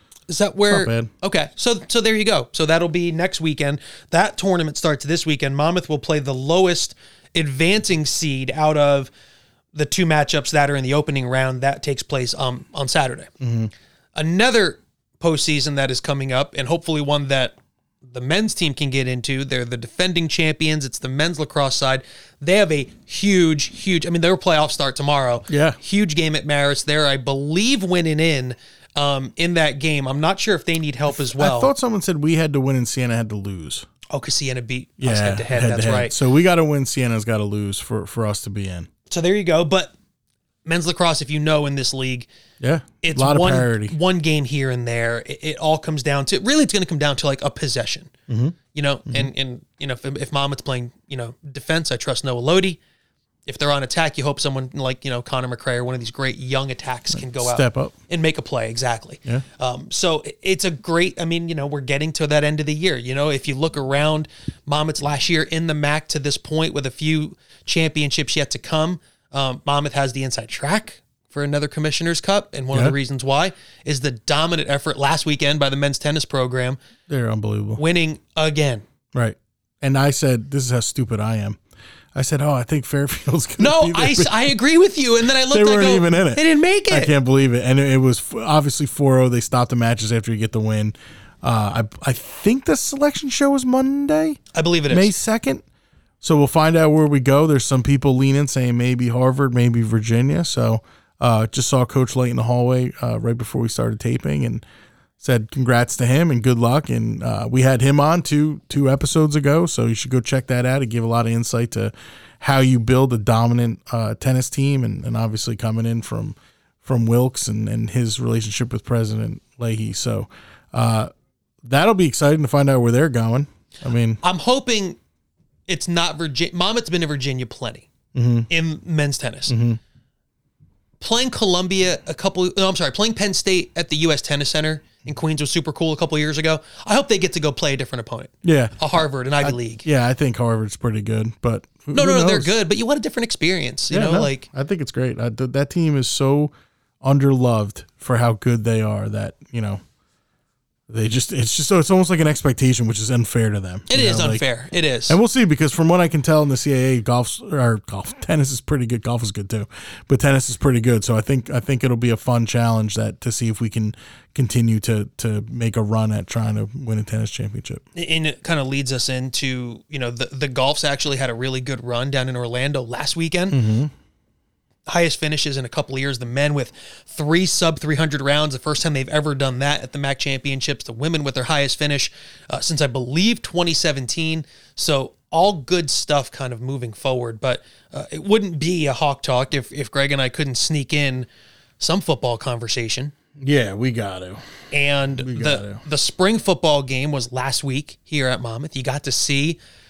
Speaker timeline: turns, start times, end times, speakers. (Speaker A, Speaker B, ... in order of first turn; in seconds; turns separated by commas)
Speaker A: 0.3-9.1, Speaker B: 0.7-1.1, Speaker A: 9.7-13.3, Speaker B: 13.4-13.7, Speaker A: 14.2-31.7, Speaker B: 25.5-25.8, Speaker B: 31.3-33.9, Speaker A: 34.1-36.2, Speaker B: 35.0-38.9, Speaker A: 39.1-39.9, Speaker A: 40.6-42.3, Speaker B: 42.6-44.0, Speaker A: 43.0-48.1, Speaker B: 48.3-48.6, Speaker A: 48.7-52.8, Speaker A: 53.5-76.8, Speaker B: 57.1-57.9, Speaker B: 77.1-77.8, Speaker A: 77.8-78.8, Speaker B: 79.1-81.6, Speaker B: 82.2-84.6, Speaker A: 83.6-87.1, Speaker B: 85.5-95.6, Speaker A: 94.5-95.1, Speaker B: 96.2-104.6, Speaker B: 105.2-121.1, Speaker B: 121.6-124.2, Speaker A: 124.2-125.0, Speaker A: 125.7-127.9, Speaker B: 128.2-128.5, Speaker A: 128.5-129.6, Speaker B: 129.5-129.8, Speaker A: 131.0-139.8, Speaker B: 138.4-138.8, Speaker B: 139.4-142.5, Speaker A: 141.9-144.5, Speaker B: 143.9-149.8, Speaker B: 150.9-154.4, Speaker A: 153.9-155.2, Speaker B: 155.1-167.8, Speaker A: 167.9-173.6, Speaker B: 173.5-173.9, Speaker A: 174.9-191.3, Speaker A: 191.8-193.1, Speaker B: 193.4-194.6, Speaker A: 194.7-199.6, Speaker B: 195.2-195.8